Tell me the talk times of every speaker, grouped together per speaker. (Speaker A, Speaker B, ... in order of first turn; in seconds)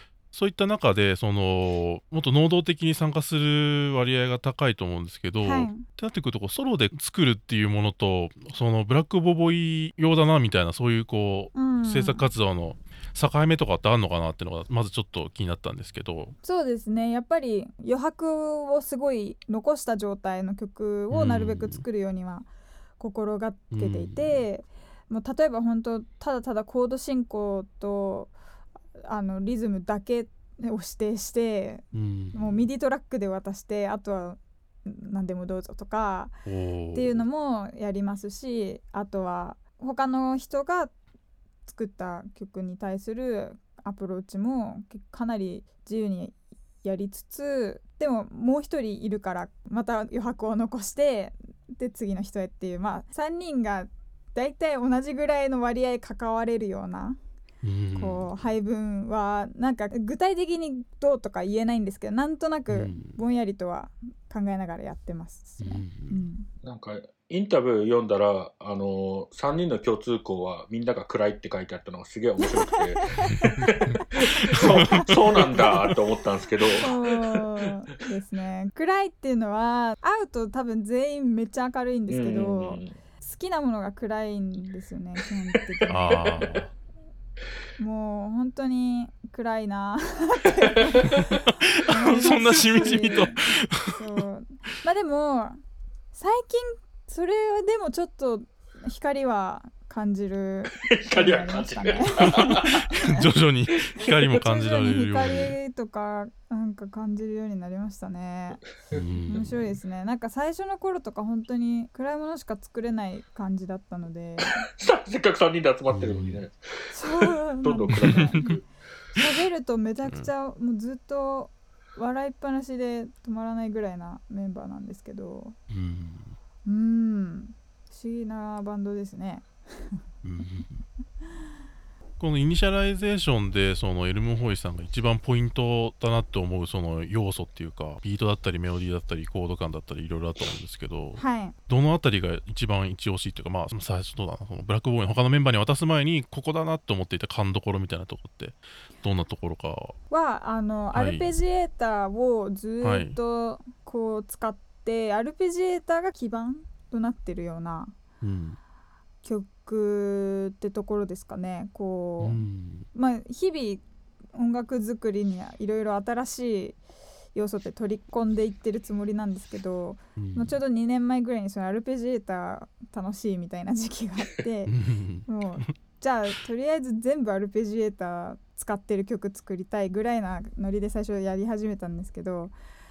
Speaker A: 0.3-16.3, 21.1-21.8, 23.7-24.4, 31.9-32.6, 36.5-37.2, 57.6-58.4, 62.7-63.2, 65.6-66.2, 74.6-75.9, 85.9-86.7, 91.5-94.0, 102.3-105.5, 108.9-109.7, 115.9-116.4, 118.0-118.5, 125.7-126.4, 130.2-130.8, 132.2-149.9, 150.9-151.3, 152.8-153.2, 158.2-158.6, 162.2-162.9, 170.2-170.6, 174.7-175.3
Speaker B: 5.4-5.8, 11.5-12.3, 16.4-22.5, 23.0-28.3, 29.0-36.4, 36.9-40.9, 41.6-57.2, 57.9-66.5, 73.0-76.0, 76.8-86.4, 87.8-95.6, 96.1-103.2, 104.3-108.6, 109.3-114.6, 116.9-118.5, 119.2-125.6, 126.7-130.0, 141.2-141.5, 150.1-157.9, 159.2-162.4, 162.9-163.8, 164.3-166.8, 167.3-174.7, 175.2-182.5
Speaker C: 66.6-77.4, 82.1-82.9, 85.7-86.6, 100.7-102.8, 114.7-118.6